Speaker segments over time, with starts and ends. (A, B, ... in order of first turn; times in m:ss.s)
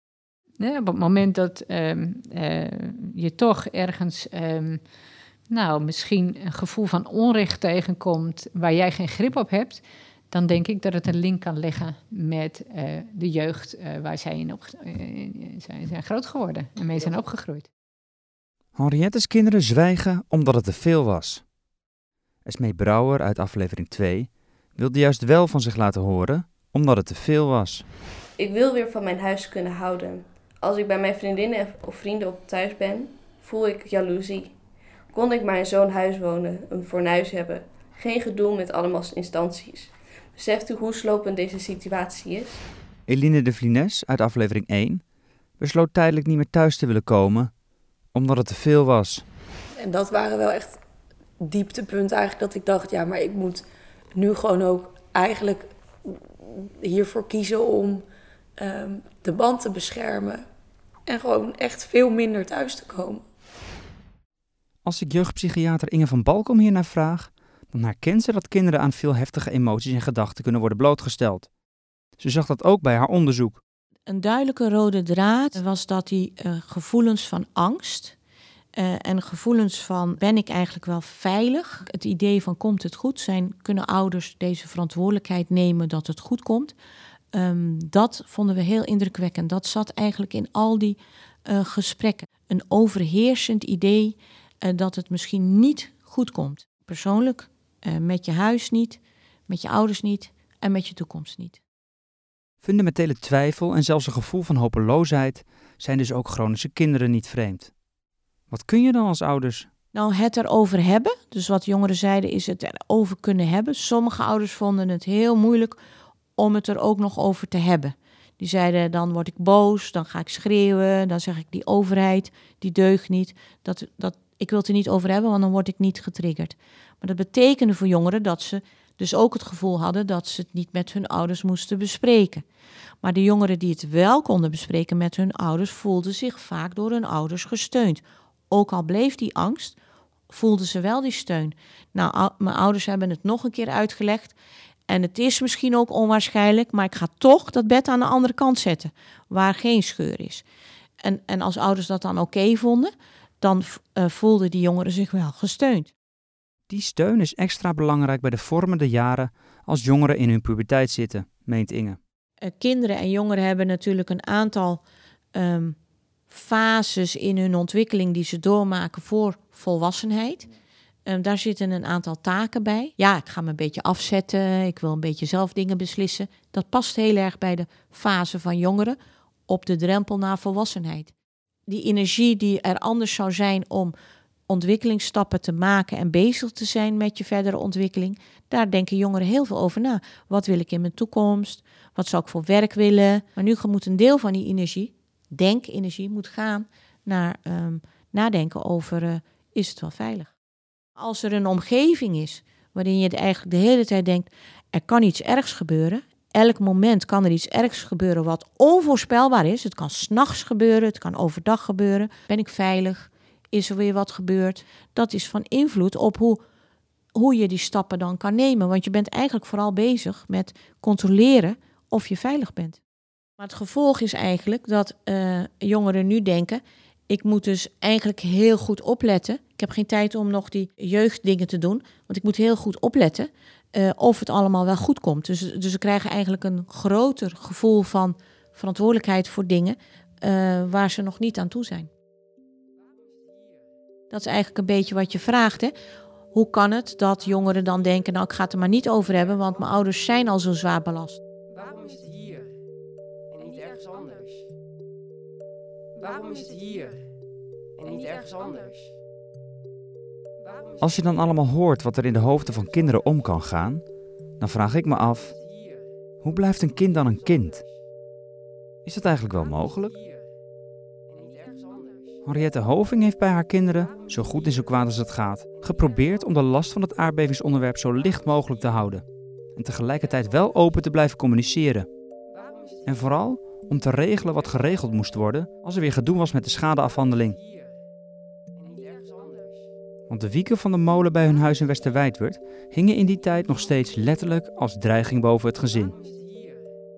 0:00.6-0:04.8 A
0:05.5-0:17.7 A
0:18.8-0:21.4 B
0:22.4-0:27.8 B
0:28.4-0:34.5 C
0:35.1-0:42.6 C
0:43.1-0:45.0 B
0:45.6-0:47.5 B
0:48.1-0:49.2 B
0:49.8-0:50.8 D
0:51.4-0:53.6 D
0:54.1-0:58.0 D
0:58.6-1:00.5 D
1:01.0-1:03.2 D
1:04.8-1:11.5 B
1:12.2-1:13.6 B
1:14.1-1:18.2 E
1:18.8-1:26.8 E
1:27.3-1:41.6 E
1:42.6-1:47.7 B
1:48.5-1:49.7 B
1:49.9-1:55.8 E
1:56.4-2:12.4 E
2:13.0-2:19.8 E
2:20.3-2:24.4 E
2:24.9-2:30.4 E
2:31.0-2:35.9 E
2:36.7-2:42.0 B
2:42.4-2:44.8 E
2:45.3-2:45.8 E
2:46.3-2:50.5 E
2:51.0-2:59.0 E
2:59.5-3:01.1 E
3:01.7-3:04.0 E
3:04.5-3:20.3 E
3:21.0-3:36.4 E
3:37.1-3:42.8 E
3:43.4-4:01.9 E
4:04.1-4:05.8 E
4:06.3-4:11.2 E
4:11.5-4:12.4 F
4:13.4-4:14.4 F
4:16.0-4:16.9 F
4:17.8-4:18.8 F
4:20.8-4:23.8 B
4:24.4-4:25.4 B
4:26.2-4:27.6 B
4:28.8-4:30.0 B
4:31.4-4:31.9 F
4:32.2-4:39.0 B
4:39.6-4:41.9 B
4:42.9-4:47.4 B
4:48.7-4:49.5 F
4:50.1-4:56.0 B
4:56.0-4:56.2 F